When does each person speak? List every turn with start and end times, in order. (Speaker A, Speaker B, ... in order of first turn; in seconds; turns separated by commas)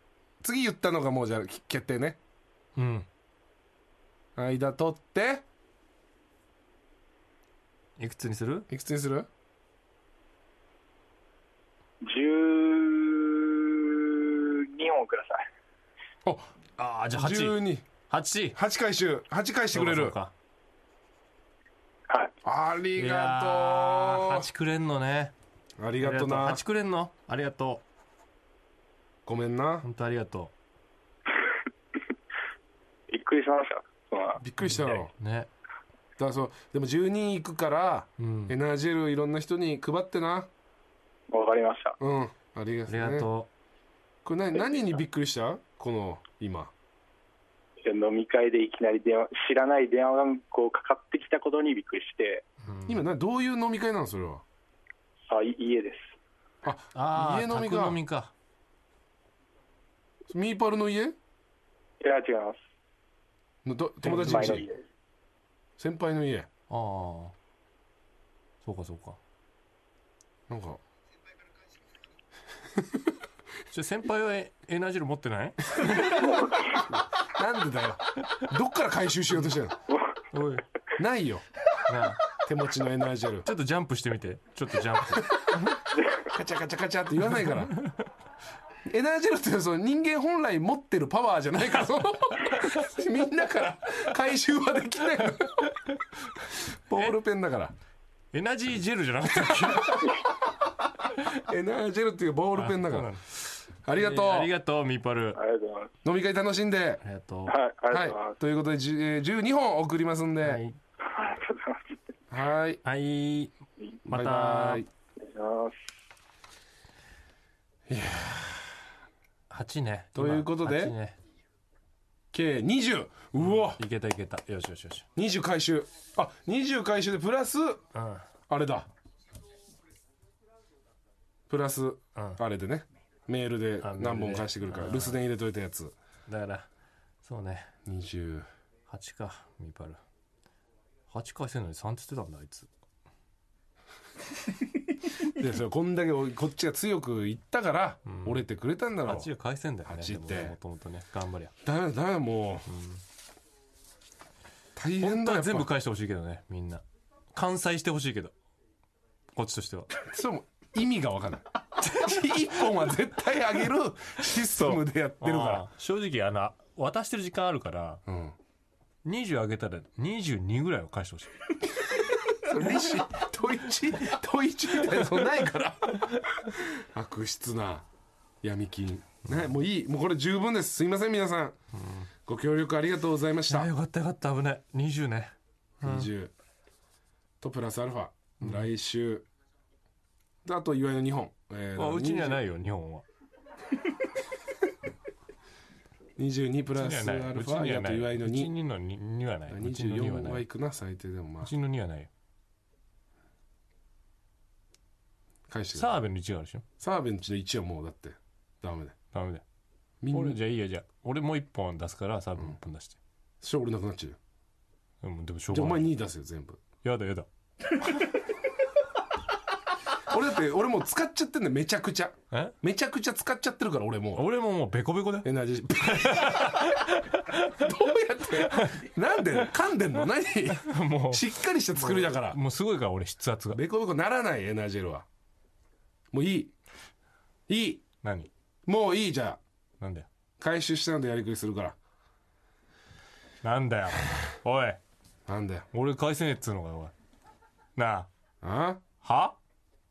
Speaker A: 0.4-2.2, Speaker B: 2.8-3.1, Speaker A: 4.3-5.4, Speaker B: 8.0-8.7, Speaker A: 8.7-9.3, Speaker C: 12.1-15.3, Speaker B: 16.8-18.6, Speaker A: 17.1-17.9, Speaker A: 18.5-20.1, Speaker B: 19.7-20.3, Speaker A: 22.4-24.5, Speaker B: 22.9-25.3, Speaker A: 25.8-26.6, Speaker B: 26.0-27.8, Speaker A: 29.2-29.8, Speaker B: 29.8-30.5, Speaker C: 33.1-34.4, Speaker A: 34.4-35.1, Speaker B: 34.6-35.5, Speaker A: 36.2-40.5, Speaker B: 38.2-38.5, Speaker C: 41.3-42.0, Speaker A: 42.0-43.3, Speaker B: 42.9-43.5, Speaker A: 44.2-46.7, Speaker C: 47.9-49.6, Speaker C: 50.9-52.4, Speaker B: 52.6-53.0, Speaker A: 52.9-54.4, Speaker C: 55.3-56.1, Speaker A: 56.6-58.0, Speaker B: 56.9-58.3, Speaker A: 60.3-61.1, Speaker C: 62.0-62.6, Speaker A: 63.6-64.7, Speaker B: 64.0-64.7, Speaker C: 64.2-64.7, Speaker A: 65.8-66.5, Speaker B: 66.7-67.3, Speaker B: 68.6-69.2, Speaker A: 70.5-70.8, Speaker B: 73.7-76.4, Speaker A: 76.9-79.8, Speaker B: 80.3-80.6, Speaker A: 81.0-81.5, Speaker B: 81.9-82.3, Speaker A: 82.3-83.5, Speaker B: 83.4-85.8, Speaker A: 86.2-87.7, Speaker A: 88.8-95.7, Speaker B: 95.7-96.0, Speaker A: 96.6-97.7, Speaker B: 98.3-100.2, Speaker A: 101.5-103.1, Speaker B: 102.5-105.4, Speaker A: 103.8-104.5, Speaker C: 105.4-105.9, Speaker A: 106.0-107.0, Speaker B: 107.0-107.6, Speaker C: 107.5-108.3, Speaker A: 107.9-110.6, Speaker B: 110.4-110.8, Speaker C: 111.1-111.8, Speaker A: 112.3-112.8, Speaker B: 112.8-113.5, Speaker B: 114.0-114.8, Speaker A: 114.0-114.9, Speaker C: 115.2-115.7, Speaker A: 117.9-118.8, Speaker B: 119.5-121.2, Speaker A: 120.1-120.9, Speaker A: 122.3-123.8, Speaker B: 123.4-125.1, Speaker A: 125.2-127.8, Speaker B: 127.9-128.3, Speaker A: 128.5-128.9, Speaker A: 131.5-135.9, Speaker B: 133.8-135.2, Speaker B: 136.3-136.7, Speaker B: 137.2-137.7, Speaker A: 137.8-138.5, Speaker B: 138.9-140.0, Speaker B: 141.1-142.7, Speaker A: 145.3-149.3, Speaker B: 148.1-148.4, Speaker B: 149.0-151.5, Speaker A: 149.8-150.6, Speaker A: 151.6-152.7, Speaker B: 152.7-153.0, Speaker A: 154.7-155.7, Speaker B: 155.0-158.3, Speaker B: 159.3-159.9, Speaker A: 159.9-165.7, Speaker B: 164.5-168.0, Speaker A: 168.1-168.3, Speaker B: 169.0-171.7, Speaker A: 172.3-177.8, Speaker B: 174.9-175.3, Speaker A: 178.4-181.6, Speaker B: 181.7-182.1, Speaker A: 182.2-183.7, Speaker B: 183.5-186.1, Speaker A: 185.8-186.3, Speaker A: 187.4-189.2, Speaker B: 188.4-188.7, Speaker A: 190.4-192.4, Speaker B: 191.7-193.0, Speaker A: 196.2-198.5, Speaker B: 196.8-200.4, Speaker A: 199.5-201.5, Speaker B: 201.4-202.1, Speaker A: 205.5-205.9, Speaker B: 205.7-206.6, Speaker A: 206.8-208.9, Speaker B: 209.1-209.4, Speaker A: 210.0-210.4, Speaker B: 210.1-213.0, Speaker A: 213.4-214.2, Speaker B: 215.0-215.9, Speaker A: 215.5-216.6, Speaker B: 216.8-217.3, Speaker A: 220.1-224.3, Speaker B: 224.1-227.7, Speaker A: 225.2-226.9, Speaker A: 227.4-232.4, Speaker B: 228.3-229.5, Speaker B: 230.5-233.6, Speaker A: 233.5-235.1, Speaker A: 236.1-236.5, Speaker A: 237.5-237.8, Speaker B: 238.0-238.3, Speaker A: 238.7-239.4, Speaker B: 239.8-240.1, Speaker A: 240.4-241.8, Speaker B: 243.4-244.8, Speaker A: 245.3-245.7, Speaker B: 245.7-246.9, Speaker B: 247.8-248.1, Speaker A: 248.4-248.8, Speaker B: 249.0-249.4